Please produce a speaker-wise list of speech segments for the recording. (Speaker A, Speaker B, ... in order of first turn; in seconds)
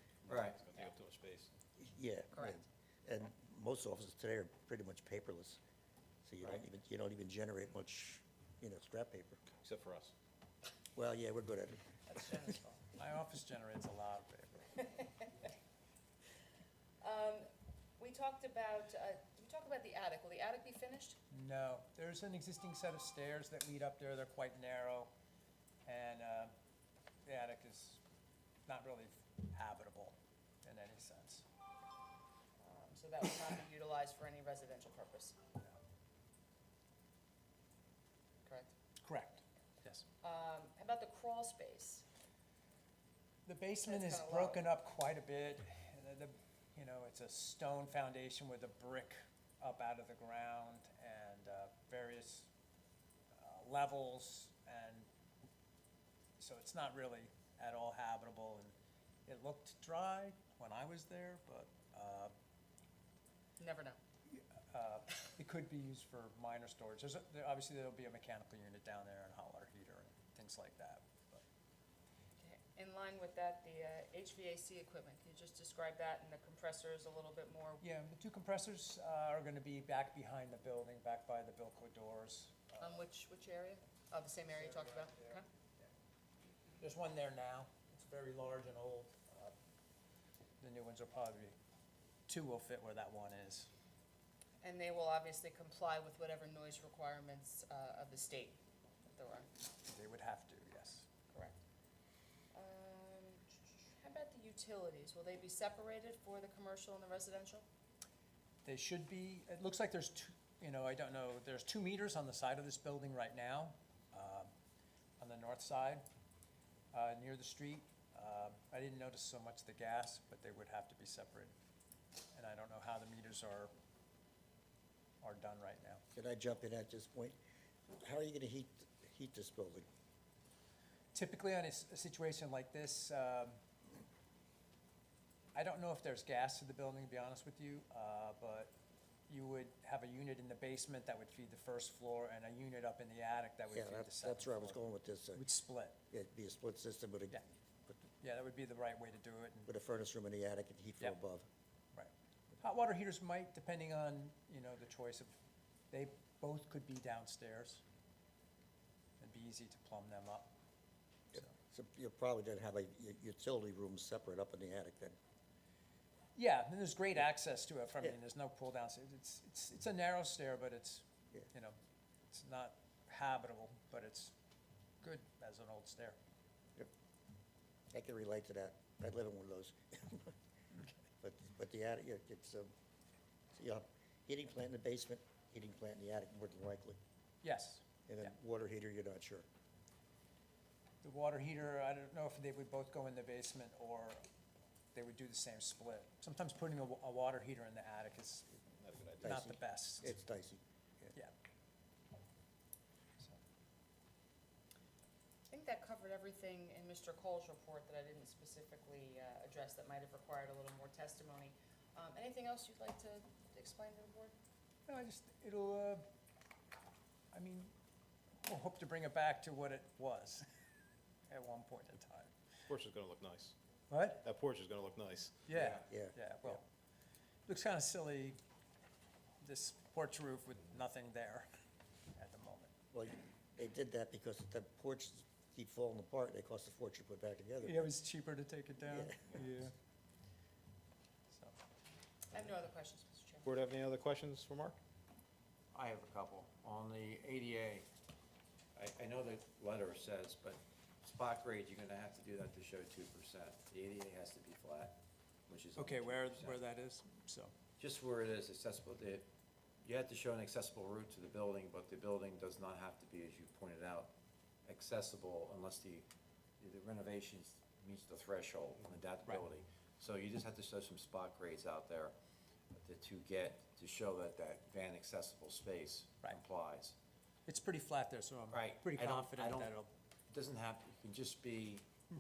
Speaker A: 0.2-1.5, 9.5-10.1, 198.8-199.4, 222.7-223.5, 224.2-225.5, 243.4-244.8
Speaker B: 0.3-0.6, 225.5-225.8, 245.7-247.8, 248.7-255.0, 255.5-256.6, 257.8-259.2, 259.8-264.1, 264.6-266.1, 266.6-272.1, 272.7-276.9, 278.5-279.8, 280.3-281.9
Speaker C: 1.8-5.6, 6.2-9.4, 10.9-11.8, 126.1-127.4, 128.0-129.8, 143.7-145.4, 146.1-148.0, 149.7-151.5, 161.3-165.2, 177.9-180.3, 181.2-182.7, 183.5-187.0, 188.1-189.4, 199.2-201.1, 225.9-226.6, 232.9-237.9, 238.8-239.5
Speaker D: 2.3-2.6, 12.1-12.8, 14.8-15.5, 17.0-21.2, 32.6-35.4, 38.4-38.7, 40.2-42.0, 43.8-44.7, 63.6-64.0, 72.4-77.8, 82.8-85.4, 94.6-99.5, 101.3-101.6, 102.5-107.6, 205.5-214.3, 242.3-243.5
Speaker E: 13.0-14.8, 21.3-25.1, 25.9-26.5, 27.2-28.0, 28.7-31.4, 39.0-40.0, 43.5-52.5, 53.3-55.1, 56.4-58.7, 59.3-62.3, 64.3-71.4, 77.8-82.8, 84.7-85.1, 86.8-89.5, 90.6-91.5, 92.3-93.7, 99.8-101.1, 108.6-114.5, 115.2-116.0, 116.9-121.5, 122.3-123.7, 125.2-126.0, 131.1-133.6, 135.5-138.7, 139.3-144.8, 145.3-146.0, 148.2-149.7, 151.9-155.3, 155.9-157.8, 159.2-160.5, 166.3-171.8, 172.3-174.3, 175.0-176.2, 187.4-187.8, 191.0-194.2, 194.9-198.6, 199.2-200.2, 214.9-216.0, 217.3-217.7, 218.4-220.4, 221.3-222.3, 223.9-224.2, 225.5-226.6, 227.5-228.4, 229.4-231.5, 232.1-232.7, 237.6-239.7, 255.8-257.5, 277.5-279.9